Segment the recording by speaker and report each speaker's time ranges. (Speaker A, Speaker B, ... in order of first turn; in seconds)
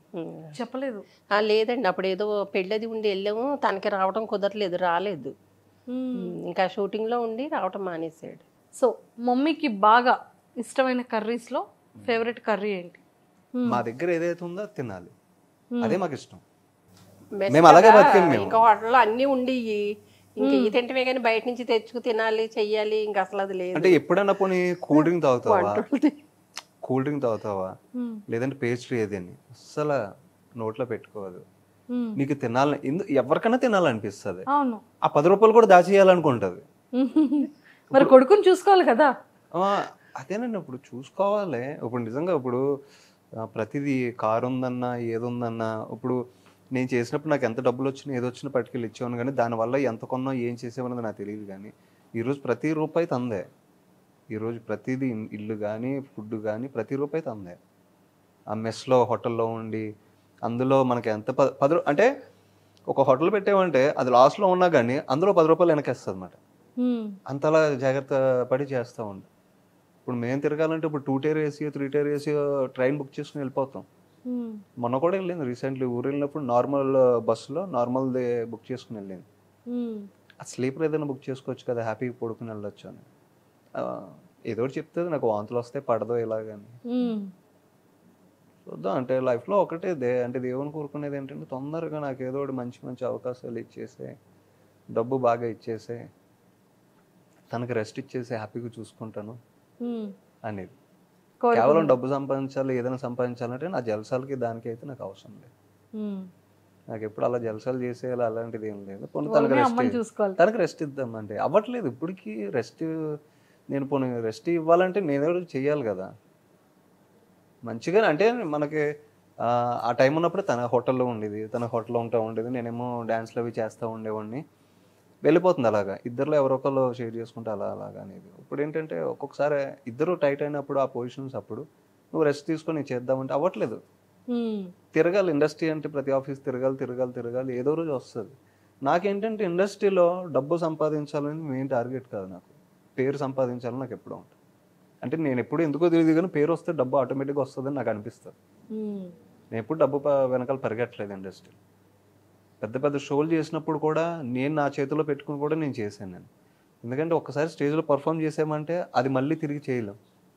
Speaker A: 0.1-0.6, 1.3-5.3, 6.2-8.4, 17.4-24.0, 24.9-26.2
Speaker B: 0.6-1.1, 5.9-6.3, 8.8-13.0, 13.6-13.8, 15.7-16.0, 20.4-20.7, 28.0-28.2, 31.9-32.2, 34.5-34.8, 37.0-39.1, 66.8-67.2, 74.3-74.6, 79.7-80.1, 86.9-87.3, 99.8-100.1, 101.4-101.9, 106.0-106.3, 109.3-110.4, 134.3-134.7, 148.7-149.1
Speaker C: 12.0-12.2, 13.7-15.1, 15.8-16.4, 17.5-18.6, 23.8-25.8, 26.9-27.8, 28.3-30.0, 30.6-31.4, 32.2-34.5, 35.0-36.6, 37.9-38.2, 39.5-42.6, 43.4-46.2, 46.8-53.5, 54.3-57.6, 58.5-59.9, 60.5-62.1, 62.9-66.4, 67.3-69.3, 70.1-73.9, 74.8-79.3, 80.4-83.0, 83.8-86.8, 88.7-94.1, 94.9-96.0, 97.5-99.4, 100.5-100.8, 101.5-105.5, 106.9-112.9, 113.7-116.1, 117.7-118.8, 119.4-124.4, 125.2-133.8, 134.9-138.3, 138.9-144.3, 145.0-148.3, 149.5-151.6, 152.6-156.3, 156.8-160.0